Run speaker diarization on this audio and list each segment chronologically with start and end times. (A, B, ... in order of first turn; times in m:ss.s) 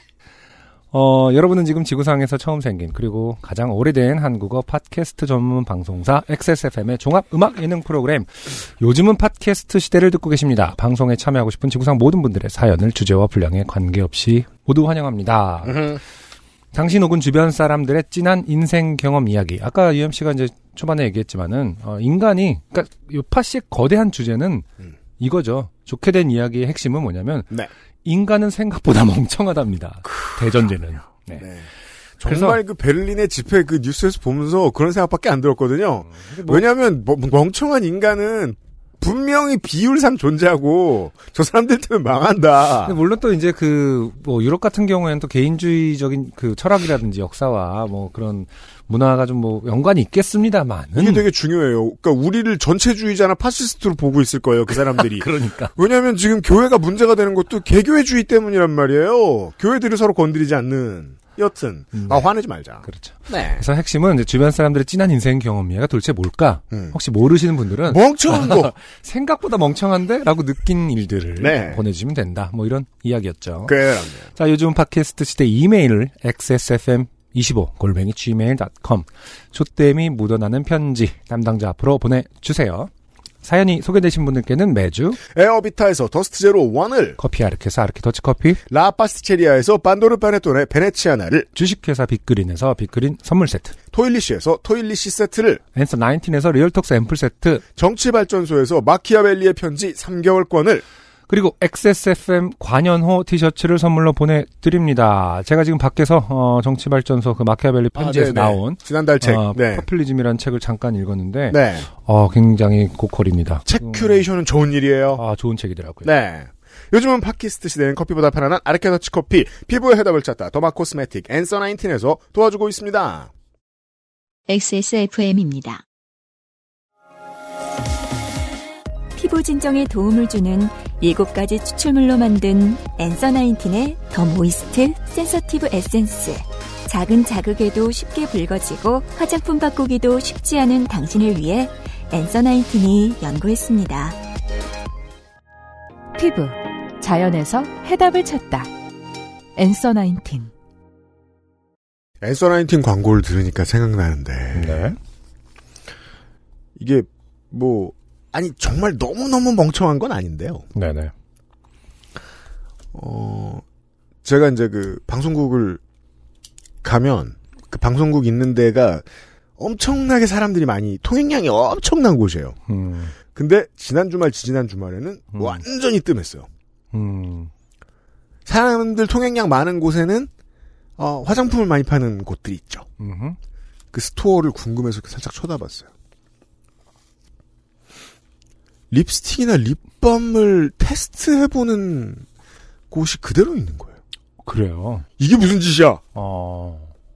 0:00.9-0:16.0 A
0:15.7-0:16.0 B
0:16.7-0:24.7 A
0:25.2-0:31.5 A
0:31.4-0:31.7 B
0:32.2-0:43.0 B
0:32.2-0:32.6 A
0:36.0-0:36.6 A
0:42.8-0:51.3 A
0:51.0-1:03.6 B
0:55.1-0:55.7 A
1:01.9-1:02.3 A
1:02.8-1:22.9 A
1:06.7-1:07.0 B
1:07.9-1:08.7 B
1:11.4-1:11.8 B
1:13.7-1:14.3 B
1:23.4-1:25.2 A
1:25.3-1:27.2 B
1:27.2-1:28.6 A
1:28.7-1:31.5 B
1:31.6-1:33.8 A
1:33.9-1:35.6 B
1:35.8-1:37.6 A
1:37.8-1:40.8 B
1:41.3-1:54.2 A
1:48.0-1:49.9 B
1:51.5-1:51.9 B
1:53.7-1:55.2 B
1:55.1-1:56.1 A
1:56.0-2:03.3 B
2:04.5-2:05.8 C
2:09.2-2:24.2 C
2:26.2-2:28.7 D
2:29.6-2:30.5 D
2:32.2-2:34.9 B
2:34.6-2:35.0 A
2:36.8-2:40.7 B
2:40.8-2:41.1 A
2:42.9-2:43.6 B
2:44.2-2:45.8 B
2:46.8-2:49.0 B
2:49.6-2:52.6 B
2:52.7-2:53.1 A
2:53.3-2:56.5 B
2:55.3-2:55.6 A
2:56.9-2:57.5 A
2:58.5-3:00.3 B
3:01.0-3:02.8 B
3:03.0-3:03.4 A
3:03.9-3:05.9 B
3:08.9-3:12.2 B
3:12.9-3:14.0 B
3:14.4-3:15.1 A
3:15.2-3:16.0 B
3:16.2-3:16.9 A